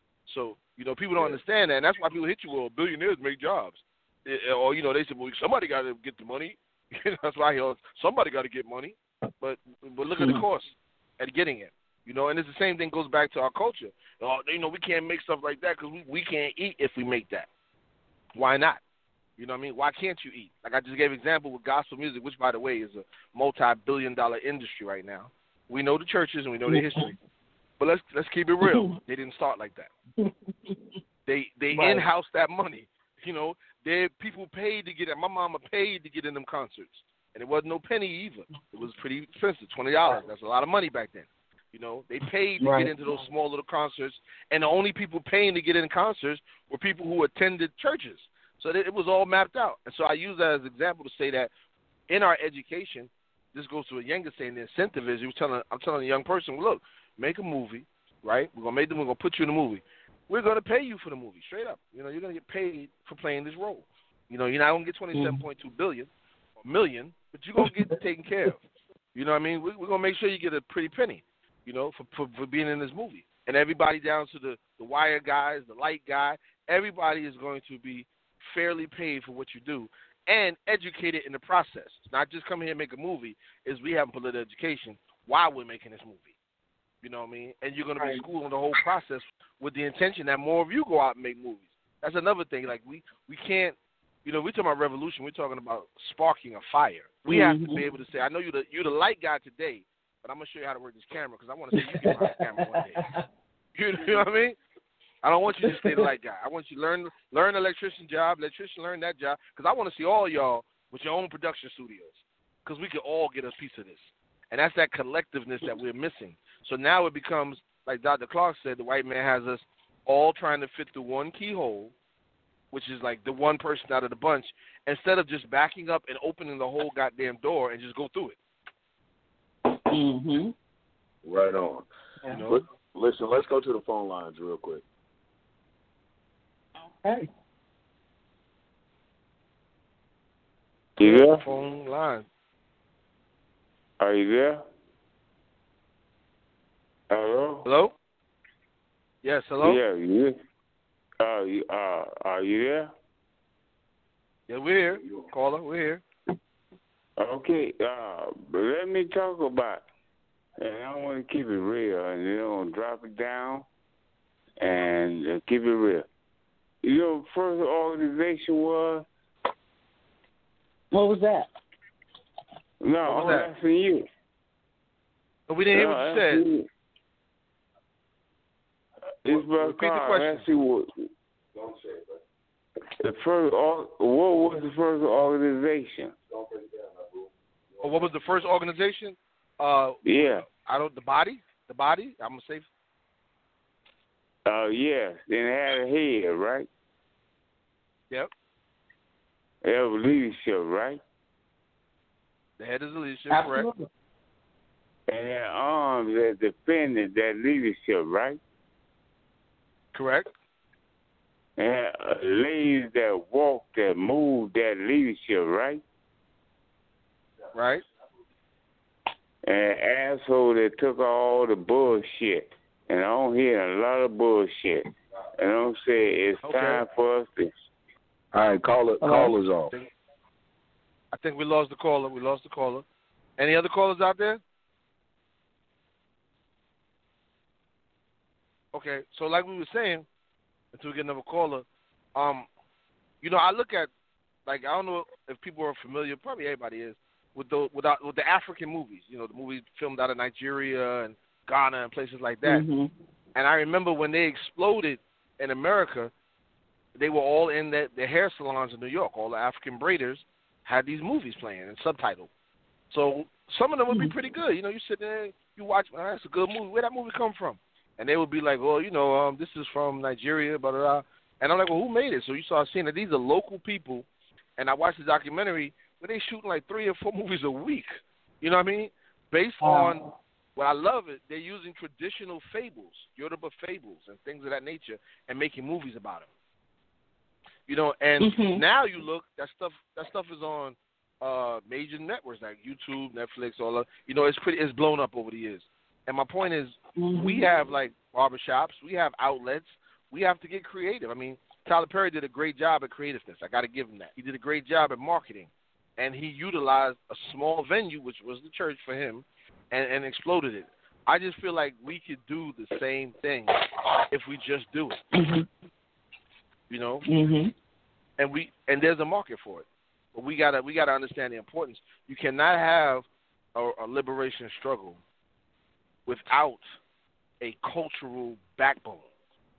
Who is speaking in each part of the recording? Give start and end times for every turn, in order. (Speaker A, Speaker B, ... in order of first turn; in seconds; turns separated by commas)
Speaker A: 0.3-17.5, Speaker B: 10.2-10.4, Speaker A: 18.4-18.8, Speaker A: 19.4-27.2, Speaker B: 26.7-27.1, Speaker A: 27.8-29.9, Speaker B: 28.6-29.0, Speaker B: 30.2-30.8, Speaker A: 31.3-51.5, Speaker B: 31.7-32.1, Speaker B: 42.6-42.9, Speaker A: 52.1-66.1, Speaker B: 65.1-65.4, Speaker A: 66.6-68.6, Speaker B: 67.6-67.9, Speaker A: 69.1-86.3, Speaker A: 87.0-103.1, Speaker B: 88.0-88.2, Speaker B: 97.3-97.8, Speaker B: 101.7-103.2, Speaker A: 103.8-104.6, Speaker A: 105.2-121.9, Speaker B: 105.6-106.0, Speaker A: 122.7-128.4, Speaker B: 129.7-130.5, Speaker C: 131.2-131.9, Speaker A: 132.3-132.6, Speaker C: 132.4-134.8, Speaker B: 136.8-137.3, Speaker D: 141.0-141.4, Speaker A: 141.0-142.3, Speaker D: 144.0-144.6, Speaker D: 147.1-147.7, Speaker A: 147.6-147.9, Speaker A: 149.2-149.8, Speaker D: 149.6-150.4, Speaker D: 151.2-152.9, Speaker A: 154.5-156.0, Speaker D: 157.2-159.8, Speaker D: 160.6-163.7, Speaker D: 164.6-166.1, Speaker D: 166.8-169.1, Speaker B: 170.9-171.5, Speaker D: 172.8-174.1, Speaker A: 173.1-173.5, Speaker A: 175.5-176.4, Speaker D: 175.7-176.7, Speaker D: 179.2-181.1, Speaker A: 179.3-180.5, Speaker C: 181.6-182.2, Speaker D: 183.0-186.1, Speaker C: 186.3-188.1, Speaker A: 187.8-192.7, Speaker D: 190.1-190.4, Speaker D: 194.4-196.7, Speaker D: 199.6-201.0, Speaker A: 202.6-203.7, Speaker B: 203.3-203.9, Speaker D: 205.1-208.4, Speaker A: 209.9-210.3, Speaker D: 211.6-215.8, Speaker A: 217.6-217.8, Speaker D: 219.4-227.6, Speaker A: 226.4-226.8, Speaker C: 228.3-229.7, Speaker B: 229.0-229.3, Speaker A: 231.1-232.8, Speaker A: 233.4-234.4, Speaker A: 238.7-240.1, Speaker A: 240.7-242.4, Speaker A: 243.2-243.9, Speaker A: 244.4-252.6, Speaker B: 252.4-252.9, Speaker A: 253.3-256.1, Speaker A: 256.9-262.3, Speaker A: 262.9-274.1, Speaker A: 274.6-280.0, Speaker B: 279.6-280.1, Speaker A: 280.6-286.3, Speaker A: 287.7-315.0, Speaker B: 288.2-288.6, Speaker B: 297.0-297.5, Speaker B: 315.1-315.5, Speaker A: 316.7-317.1, Speaker B: 317.1-317.5, Speaker A: 318.2-325.0, Speaker A: 326.1-326.6, Speaker A: 327.4-329.1